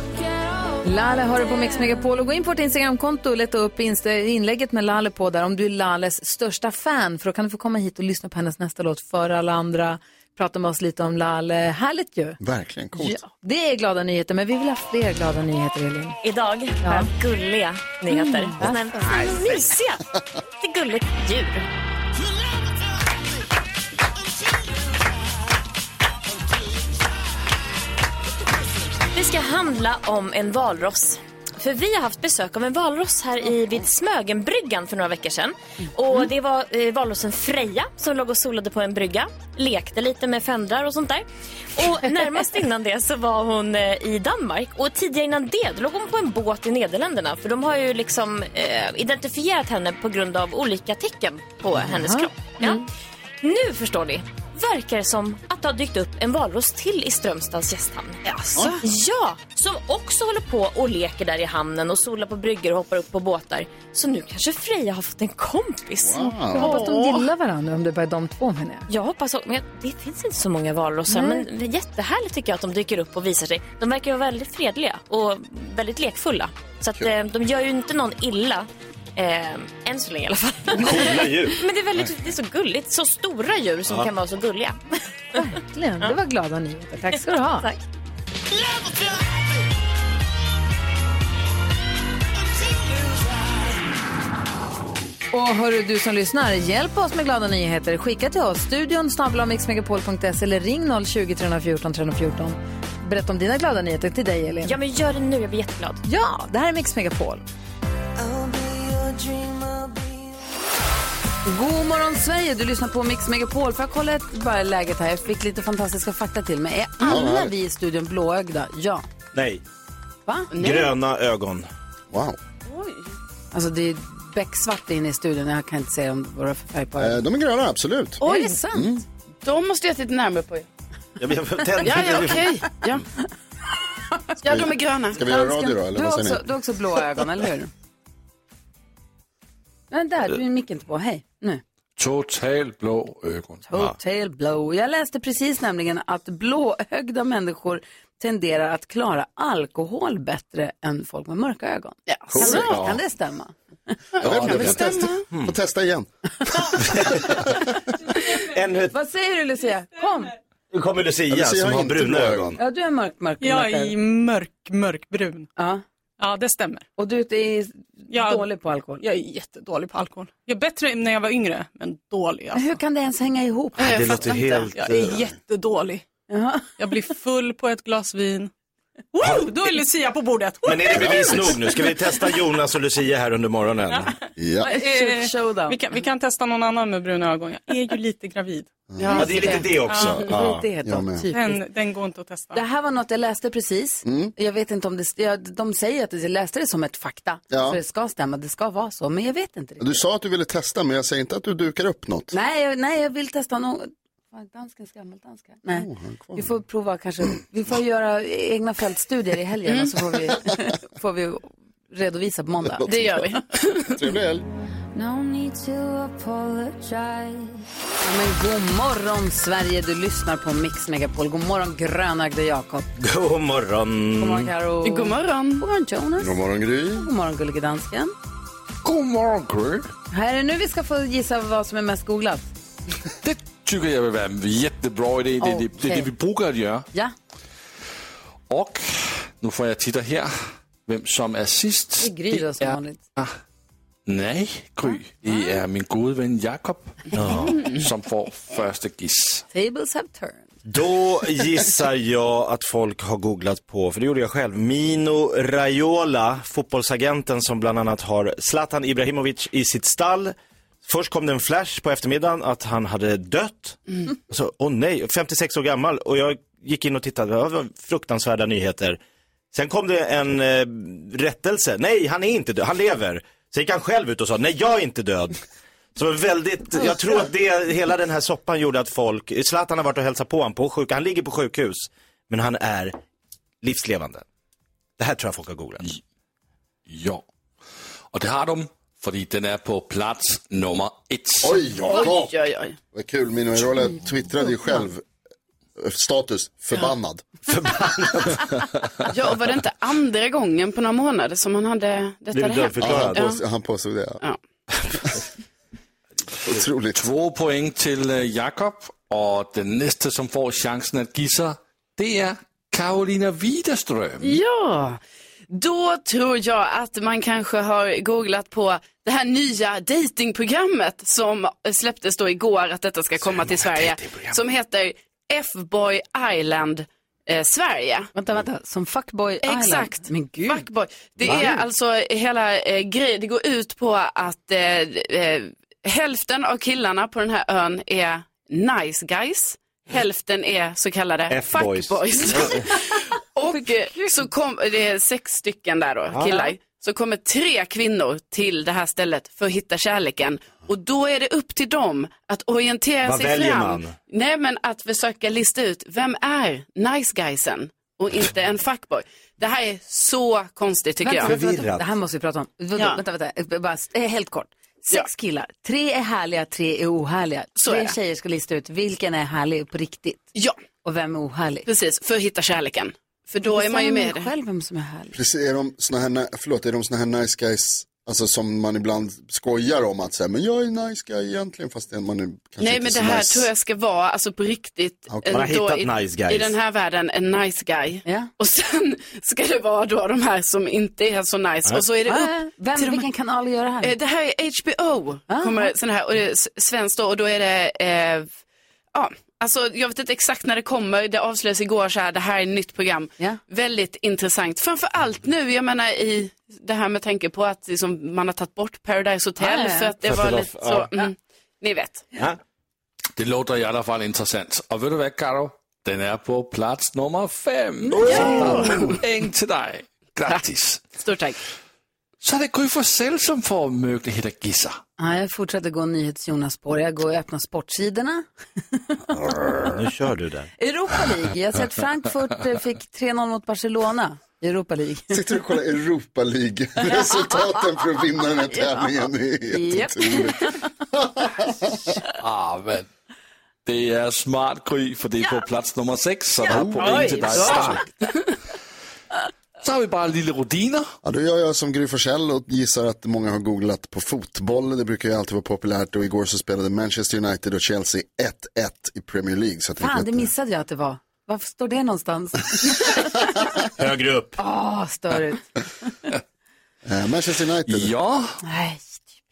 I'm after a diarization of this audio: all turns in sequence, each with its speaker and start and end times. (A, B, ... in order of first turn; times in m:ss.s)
0:00.8-0:12.4 A
0:12.4-0:13.2 B
0:13.0-0:16.2 A
0:16.2-0:20.0 C
0:16.8-0:17.1 A
0:18.1-0:19.0 A
0:20.6-0:21.7 C
0:29.1-0:52.9 C
0:51.9-0:52.7 A
0:53.4-0:58.2 C
0:58.2-0:58.8 A
0:58.8-1:07.2 C
1:06.0-1:06.7 B
1:06.5-1:08.9 A
1:08.9-1:24.8 C
1:11.1-1:11.5 A
1:20.8-1:21.6 D
1:25.4-1:27.7 A
1:27.5-1:27.8 C
1:35.3-1:44.8 A
1:44.6-1:46.0 C
1:46.1-1:47.4 A
1:51.5-1:59.0 A
1:57.0-1:57.5 B
1:59.3-1:59.6 D
2:00.5-2:01.0 E
2:00.6-2:01.7 D
2:02.1-2:02.4 B
2:02.7-2:03.1 E
2:03.5-2:07.2 A
2:07.0-2:08.2 B
2:08.2-2:08.6 E
2:08.2-2:08.9 A
2:08.7-2:09.0 B
2:09.4-2:10.7 E
2:11.2-2:12.6 D
2:11.8-2:13.0 E
2:14.4-2:15.2 E
2:14.5-2:16.5 B
2:15.2-2:17.7 A
2:19.9-2:21.6 A
2:22.0-2:23.7 F
2:23.7-2:34.0 A
2:32.1-2:32.8 E
2:32.3-2:33.0 B
2:34.2-2:36.1 B
2:34.2-2:35.3 E
2:34.2-2:35.5 D
2:36.6-2:37.3 B
2:36.8-2:37.4 D
2:38.3-2:39.0 D
2:38.9-2:40.3 A
2:40.7-2:42.6 D
2:41.3-2:42.6 B
2:42.6-2:43.9 A
2:43.4-2:45.5 G
2:45.6-2:45.8 A
2:46.2-2:46.9 G
2:47.0-2:49.0 A
2:48.1-2:52.8 G
2:52.6-2:53.8 A
2:53.8-2:55.2 D
2:53.8-2:54.6 E
2:54.7-2:56.0 G
2:56.3-2:56.7 A
2:56.8-2:58.5 G
2:59.1-3:02.0 G
2:59.2-2:59.5 D
3:00.6-3:04.2 D
3:00.9-3:01.6 B
3:04.4-3:04.7 B
3:04.6-3:08.7 G
3:04.7-3:05.8 A
3:08.9-3:09.3 B
3:09.0-3:09.6 E
3:09.1-3:09.7 A
3:09.2-3:10.6 D
3:09.9-3:10.2 G
3:10.2-3:11.6 A
3:10.8-3:11.3 B
3:11.3-3:12.6 G
3:12.5-3:20.0 A
3:14.0-3:14.3 B
3:17.5-3:17.8 B
3:19.8-3:22.3 B
3:22.3-3:32.9 A
3:25.7-3:26.5 B
3:29.7-3:30.0 E
3:32.7-3:33.1 B
3:32.9-3:34.0 E
3:33.9-3:34.5 B
3:34.9-3:42.9 A
3:43.0-3:44.5 D
3:44.2-3:46.3 A
3:44.8-3:45.6 E
3:46.2-3:47.1 B
3:46.9-3:48.1 A
3:48.8-3:49.9 F
3:50.1-3:52.5 A
3:53.2-3:56.9 F
3:55.4-3:56.1 A
3:58.5-4:03.4 F
4:02.0-4:03.0 A
4:04.1-4:09.4 F
4:04.8-4:05.6 A
4:07.2-4:07.6 D
4:09.5-4:10.4 A
4:10.7-4:29.0 D
4:29.5-4:35.4 D
4:36.0-4:43.0 D
4:43.6-4:44.2 D
4:45.0-4:45.8 D
4:46.9-4:47.2 F
4:48.1-4:51.6 F
4:51.4-4:52.3 B
4:51.8-4:52.8 E
4:52.9-4:55.0 B
4:55.8-4:57.3 B
4:57.5-4:58.5 D
4:59.1-5:03.4 E
5:02.3-5:03.3 D
5:02.8-5:04.2 B
5:06.5-5:07.0 B
5:06.9-5:14.4 F
5:14.2-5:28.1 E
5:23.6-5:24.3 D
5:28.2-5:30.6 A
5:29.4-5:42.8 E
5:31.2-5:31.6 A
5:31.2-5:31.5 D
5:41.3-5:42.7 D
5:43.3-6:01.4 E
5:43.5-5:44.2 A
5:46.1-5:46.5 D
5:53.0-5:54.0 D
6:01.0-6:10.3 A
6:01.2-6:01.9 D
6:02.8-6:03.0 E
6:07.6-6:08.0 E
6:10.8-6:11.7 A
6:11.7-6:14.3 E
6:13.5-6:15.2 A
6:15.1-6:23.5 B
6:22.6-6:33.1 E
6:25.1-6:25.4 B
6:25.3-6:26.6 D
6:32.0-6:34.0 A
6:33.8-6:38.3 E
6:35.3-6:35.7 A
6:38.9-6:52.1 E
6:49.4-6:49.9 A
6:50.0-6:50.9 D
6:53.2-7:00.9 F
6:57.8-6:58.8 A
6:58.0-6:59.3 E
7:01.0-7:01.4 E
7:02.2-7:04.8 F
7:05.0-7:08.9 A
7:09.7-7:10.5 D
7:10.6-7:15.2 A
7:15.1-7:22.0 B
7:19.5-7:20.7 A
7:22.1-7:22.9 F
7:23.6-7:27.8 F
7:26.5-7:27.5 D
7:26.5-7:27.6 B
7:26.8-7:28.1 E
7:29.6-7:30.9 F
7:31.0-7:40.3 B
7:39.8-7:43.3 A
7:43.8-7:44.4 D
7:44.4-7:45.5 A
7:46.9-7:47.9 B
7:47.7-7:48.4 F
7:48.4-7:49.0 A